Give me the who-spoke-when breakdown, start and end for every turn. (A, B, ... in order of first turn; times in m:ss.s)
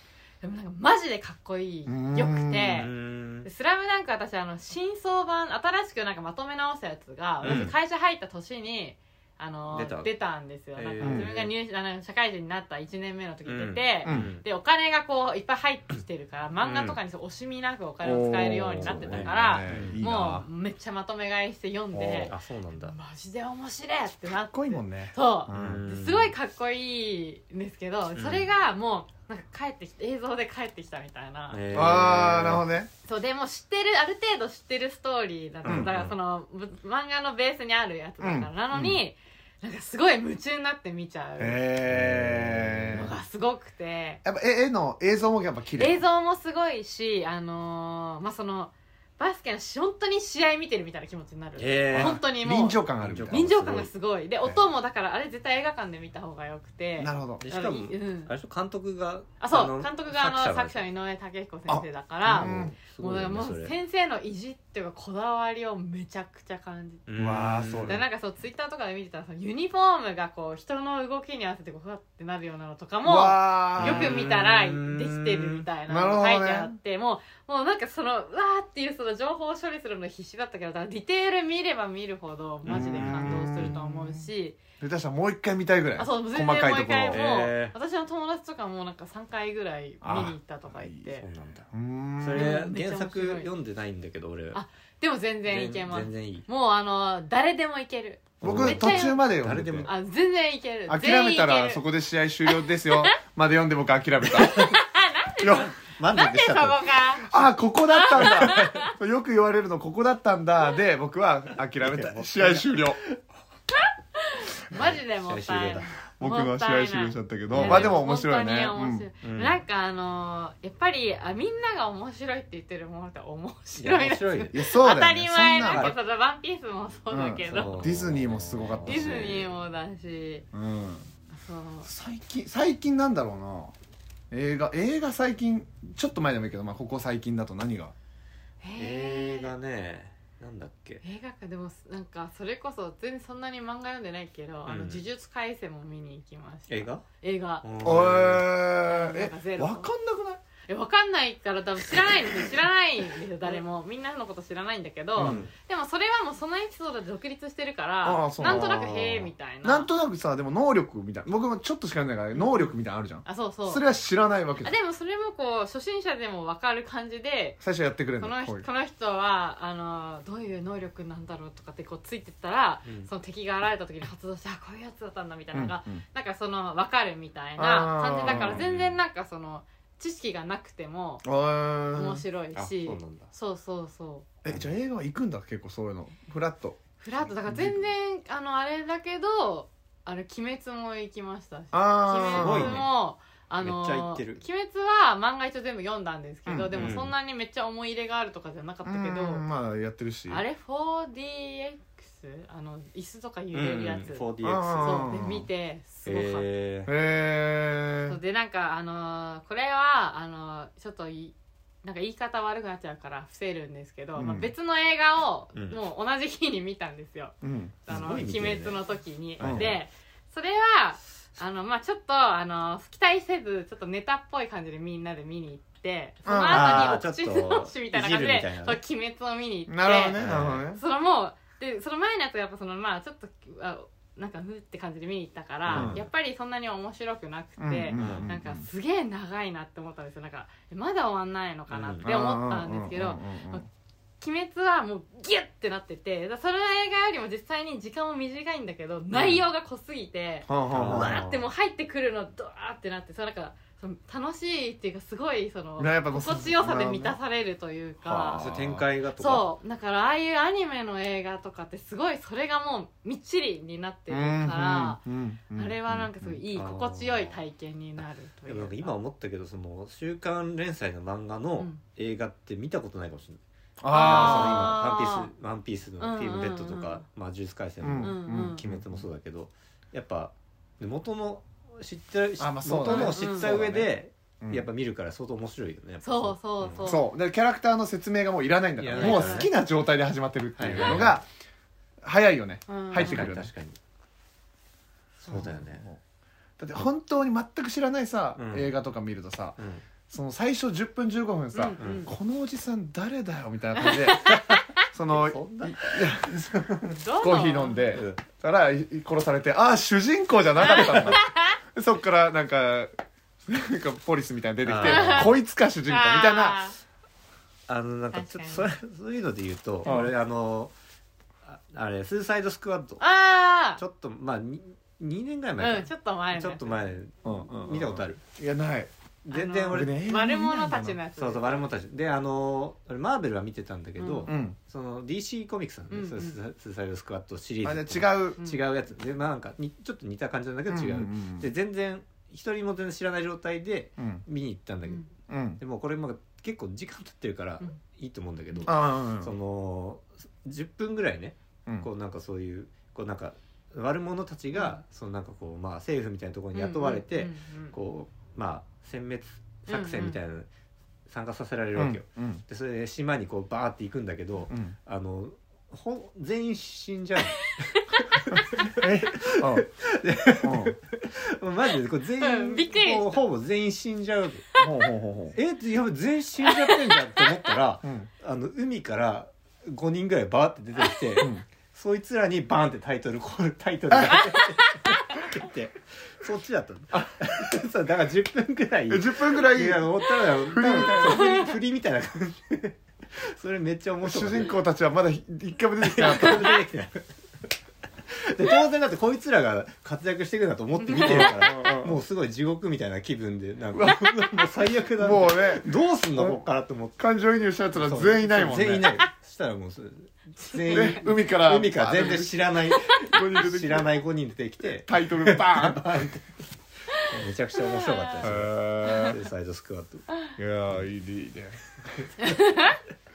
0:00.4-0:02.9 A
0:01.9-0:02.8 B
0:02.7-0:03.5 C
0:03.4-0:32.1 A
0:07.4-0:07.7 C
0:07.4-0:07.7 B
0:09.7-0:10.1 C
0:10.8-0:11.5 C
0:11.0-0:11.3 B
0:13.5-0:14.4 C
0:14.0-0:14.3 B
0:16.6-0:17.0 C
0:18.0-0:20.5 B
0:18.8-0:20.0 C
0:21.9-0:22.3 B
0:22.2-0:23.0 C
0:24.5-0:25.8 B
0:25.5-0:26.4 C
0:28.1-0:28.5 C
0:31.5-0:32.7 C
0:31.7-0:32.9 B
0:33.0-0:41.6 A
0:35.6-0:36.1 C
0:35.6-0:35.9 B
0:38.2-0:39.0 B
0:41.4-0:43.1 B
0:41.9-0:43.1 C
0:42.9-0:44.2 A
0:44.2-0:46.0 B
0:45.8-0:58.3 A
0:51.6-0:52.2 C
0:51.9-0:53.4 B
0:53.0-0:53.9 C
0:57.0-0:57.4 B
0:57.4-1:00.8 C
0:59.4-1:07.0 A
1:01.7-1:02.8 B
1:02.2-1:03.7 C
1:07.1-1:08.0 C
1:07.2-1:08.0 B
1:07.9-1:24.6 A
1:13.0-1:14.3 B
1:13.8-1:15.6 C
1:15.9-1:16.8 B
1:22.6-1:23.8 C
1:22.7-1:24.3 B
1:24.8-1:27.2 B
1:26.0-1:31.3 A
1:27.1-1:27.8 C
1:30.0-1:31.0 B
1:31.2-1:34.6 C
1:31.7-1:32.5 B
1:32.4-1:33.5 A
1:34.5-1:39.3 A
1:35.5-1:36.5 C
1:38.4-1:39.9 B
1:38.4-1:39.9 C
1:39.8-1:41.8 A
1:40.9-1:44.8 B
1:42.5-1:43.1 A
1:44.3-1:44.7 C
1:44.5-1:47.3 A
1:45.4-1:45.7 B
1:45.5-1:47.4 C
1:47.2-1:53.0 B
1:47.9-1:48.9 A
1:48.1-1:48.6 C
1:51.8-1:53.2 C
1:53.7-2:07.9 A
1:54.7-1:55.9 C
1:56.2-1:59.1 B
1:57.5-1:58.0 C
1:59.2-1:59.6 C
2:03.8-2:04.5 C
2:04.5-2:06.0 B
2:05.6-2:05.9 C
2:07.1-2:09.4 B
2:07.5-2:09.5 C
2:08.8-2:10.5 A
2:10.5-2:11.1 B
2:11.3-2:11.9 A
2:11.8-2:13.8 B
2:14.3-2:17.9 B
2:18.6-2:19.5 A
2:18.8-2:21.0 C
2:21.0-2:27.6 A
2:24.6-2:25.0 C
2:26.7-2:27.0 C
2:27.6-2:28.5 C
2:27.8-2:30.4 B
2:28.8-2:29.9 A
2:30.7-2:39.9 A
2:35.2-2:35.5 B
2:35.2-2:35.5 C
2:38.0-2:44.7 B
2:42.3-2:42.7 A
2:43.2-2:43.8 A
2:44.6-2:47.6 A
2:47.6-2:48.7 B
2:48.2-3:01.2 A
2:55.5-2:56.0 B
2:57.6-2:58.6 B
2:58.2-2:59.0 C
3:01.2-3:02.2 B
3:01.9-3:04.3 A
3:02.5-3:03.3 C
3:04.4-3:06.8 B
3:07.0-3:19.4 A
3:07.4-3:07.9 B
3:11.7-3:12.8 B
3:12.4-3:12.9 C
3:13.6-3:14.4 C
3:16.5-3:17.0 B
3:16.7-3:17.1 C
3:18.8-3:20.4 B
3:20.3-3:26.5 A
3:23.5-3:25.0 C
3:24.4-3:25.5 B
3:26.0-3:26.9 C
3:26.9-3:28.2 B
3:28.1-3:37.4 A
3:34.1-3:34.5 B
3:37.4-3:37.9 B
3:37.9-4:03.6 A
3:37.9-3:38.8 C
3:39.4-3:39.8 C
3:39.4-3:39.8 B
3:46.2-3:47.0 B
3:46.5-3:48.8 C
3:49.7-3:50.8 B
3:50.1-3:50.6 C
3:55.7-3:56.0 C
3:55.7-3:56.0 B
3:57.6-3:58.7 B
3:58.0-3:58.3 C
4:01.7-4:02.0 C
4:02.0-4:03.6 B
4:04.2-4:18.5 A
4:10.5-4:11.2 B
4:10.7-4:11.4 C
4:15.8-4:17.2 B
4:18.0-4:18.9 B
4:18.4-4:19.5 C
4:19.2-4:28.9 A
4:24.1-4:26.4 B
4:26.5-4:27.4 C
4:28.5-4:33.4 C
4:33.8-4:34.8 B
4:33.9-4:35.3 A
4:33.9-4:46.8 C
4:36.0-4:37.0 A
4:37.8-4:39.0 B
4:38.0-4:38.6 A
4:42.4-4:44.6 B
4:42.9-4:43.5 A
4:46.0-4:47.1 A
4:46.8-4:51.3 B
4:48.8-4:49.5 C
4:48.9-4:49.5 A
4:50.6-4:51.2 C
4:52.0-4:53.5 B
4:52.7-4:53.3 A
4:53.0-4:53.8 C
4:55.2-4:55.8 C
4:55.2-4:56.0 B
4:56.6-4:59.6 B
4:58.4-4:58.7 C
4:59.6-4:59.9 C
5:00.1-5:12.9 B
5:01.5-5:02.1 A
5:01.8-5:02.1 C
5:03.8-5:04.7 A
5:04.3-5:04.6 C
5:05.1-5:07.0 C
5:06.9-5:08.0 A
5:07.9-5:08.2 C
5:10.6-5:11.6 A
5:13.5-5:16.6 B
5:14.6-5:15.3 C
5:14.8-5:15.3 A
5:15.9-5:16.8 A
5:17.7-5:20.7 C
5:18.1-5:18.7 A
5:21.4-5:23.0 C
5:23.0-5:23.8 A
5:23.8-5:28.2 C
5:25.6-5:26.8 A
5:27.2-5:28.9 B
5:29.2-5:29.9 C
5:29.3-5:31.6 A
5:29.7-5:31.0 B
5:31.2-5:45.1 C
5:34.0-5:34.3 A
5:34.3-5:34.6 B
5:35.9-5:36.4 A
5:37.6-5:38.4 B
5:40.7-5:41.5 B
5:44.0-5:44.2 B
5:45.3-5:45.6 B
5:45.6-6:00.5 C
5:48.7-5:49.3 B
5:56.5-5:57.8 A
5:59.7-6:00.2 A
6:01.1-6:14.5 C
6:01.8-6:02.4 B
6:04.5-6:04.8 B
6:07.7-6:08.0 A
6:08.8-6:09.6 B
6:10.4-6:10.8 B
6:12.2-6:13.2 A
6:14.6-6:15.4 B
6:15.4-6:34.6 C
6:16.4-6:17.5 A
6:17.8-6:18.1 B
6:21.2-6:21.4 B
6:23.9-6:24.2 B
6:28.9-6:31.4 B
6:31.0-6:31.5 A
6:34.0-6:36.6 B
6:35.8-6:37.1 C
6:38.1-6:47.0 C
6:40.8-6:41.6 A
6:41.0-6:42.0 B
6:43.7-6:46.4 B
6:47.0-6:49.0 B
6:47.8-7:00.1 C
6:50.4-6:51.0 A
6:50.6-6:54.0 B
6:54.8-6:55.9 B
6:56.9-6:59.1 A
6:58.2-6:59.2 B
7:00.4-7:01.6 B
7:01.9-7:02.2 C
7:02.2-7:02.8 A